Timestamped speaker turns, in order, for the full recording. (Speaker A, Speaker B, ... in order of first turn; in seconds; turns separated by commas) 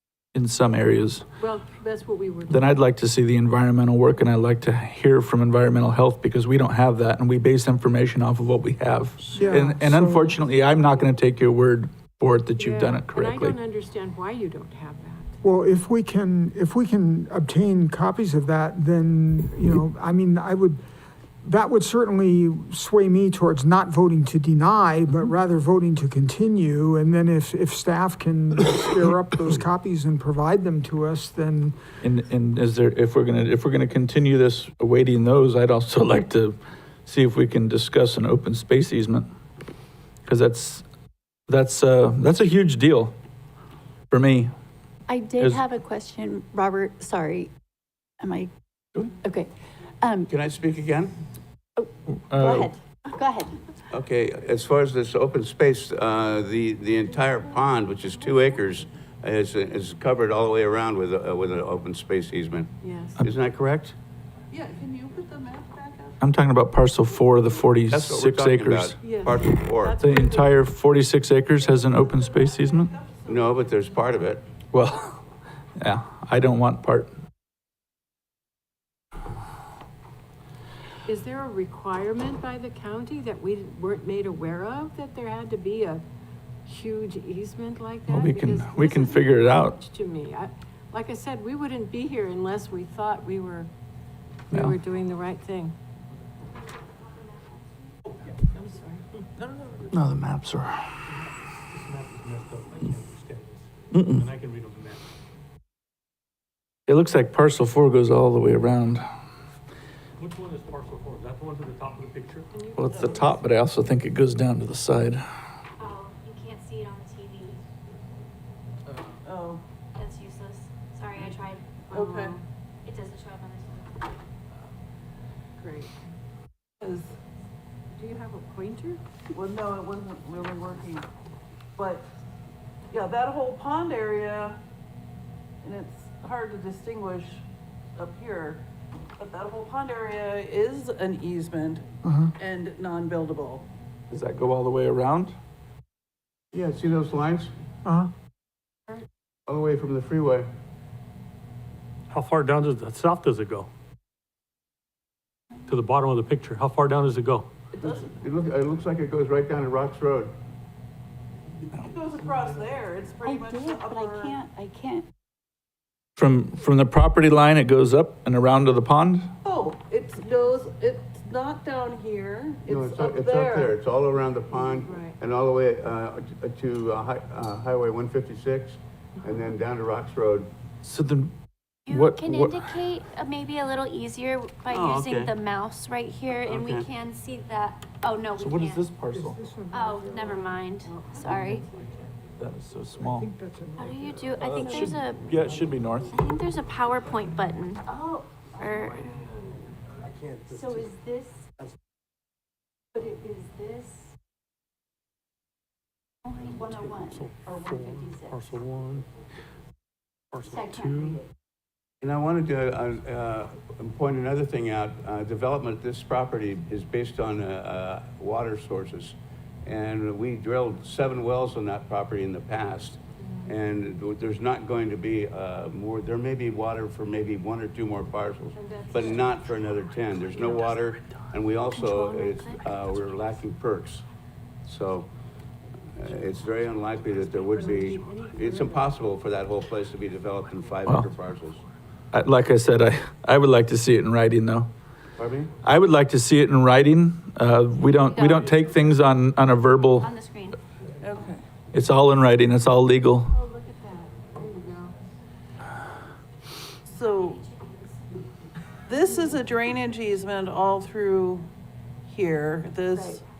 Speaker A: 0.3-1.2, Speaker B: 1.4-2.8, Speaker A: 2.5-13.6, Speaker C: 9.2-9.6, Speaker D: 9.3-10.3, Speaker B: 12.6-15.3, Speaker D: 15.4-20.8, Speaker D: 21.4-31.8, Speaker A: 32.0-39.3, Speaker A: 40.3-40.8, Speaker A: 41.5-43.1, Speaker A: 44.1-44.5, Speaker E: 45.1-47.5, Speaker A: 45.4-45.6, Speaker E: 48.2-48.5, Speaker E: 49.2-50.3, Speaker C: 50.3-51.1, Speaker E: 51.8-53.5, Speaker A: 52.2-52.7, Speaker C: 53.9-64.0, Speaker B: 62.8-63.2, Speaker F: 64.5-66.2, Speaker A: 66.2-69.0, Speaker C: 67.9-70.0, Speaker B: 69.0-70.6, Speaker A: 70.0-72.9, Speaker F: 71.8-73.7, Speaker C: 73.3-74.4, Speaker A: 74.7-75.2, Speaker A: 75.8-77.1, Speaker B: 81.1-86.0, Speaker B: 86.7-93.7, Speaker A: 88.1-89.8, Speaker B: 94.5-95.8, Speaker A: 94.5-94.8, Speaker B: 98.5-99.0, Speaker F: 99.4-99.8, Speaker A: 99.9-100.8, Speaker G: 101.0-105.0, Speaker A: 103.9-104.3, Speaker A: 106.9-109.0, Speaker G: 110.2-112.5, Speaker B: 112.5-113.4, Speaker A: 112.8-115.2, Speaker F: 112.9-113.2, Speaker H: 115.8-117.6, Speaker F: 119.1-119.6, Speaker H: 120.0-122.3, Speaker F: 121.9-122.4, Speaker B: 122.0-122.4, Speaker H: 122.8-124.1, Speaker B: 125.6-125.9, Speaker F: 126.8-127.2, Speaker B: 128.0-129.0, Speaker F: 129.3-131.1, Speaker F: 131.8-132.1, Speaker F: 132.9-134.6, Speaker F: 135.6-137.4, Speaker F: 138.0-138.6, Speaker F: 139.2-141.8, Speaker D: 142.0-142.3, Speaker F: 142.4-143.7, Speaker A: 144.1-145.3, Speaker C: 146.5-147.5, Speaker D: 147.8-148.1, Speaker C: 149.5-150.5, Speaker G: 152.1-153.7, Speaker G: 155.7-157.5, Speaker F: 157.7-158.1, Speaker C: 157.8-160.3, Speaker F: 161.7-164.4, Speaker E: 163.2-165.1, Speaker A: 166.2-169.3, Speaker F: 169.4-173.8, Speaker C: 172.7-180.5, Speaker B: 174.8-175.1, Speaker A: 180.8-181.3, Speaker H: 181.9-188.9, Speaker A: 181.9-182.7, Speaker C: 186.5-186.9, Speaker A: 188.4-189.4, Speaker D: 189.1-190.5, Speaker H: 189.7-191.7, Speaker A: 192.4-193.3, Speaker D: 193.0-194.3, Speaker H: 193.8-195.2, Speaker A: 194.4-196.1, Speaker H: 196.1-197.8, Speaker E: 197.8-199.0, Speaker H: 198.6-199.0, Speaker E: 200.3-201.4, Speaker E: 202.9-204.1, Speaker E: 206.2-208.4, Speaker G: 206.6-209.1, Speaker G: 210.3-211.2, Speaker E: 210.4-211.3, Speaker C: 212.0-234.0, Speaker B: 223.2-223.5, Speaker B: 228.5-229.3, Speaker B: 230.4-230.7, Speaker H: 231.7-232.7, Speaker C: 234.6-235.1, Speaker C: 235.9-241.6, Speaker B: 237.3-239.0, Speaker A: 242.1-244.7, Speaker C: 245.2-245.5, Speaker A: 245.6-250.1, Speaker H: 248.0-248.7, Speaker H: 250.0-250.6, Speaker F: 251.0-251.4, Speaker A: 251.7-253.3, Speaker B: 253.3-254.9, Speaker F: 256.9-257.5, Speaker H: 257.4-257.8, Speaker F: 258.9-261.5, Speaker F: 262.1-263.2, Speaker E: 262.9-263.2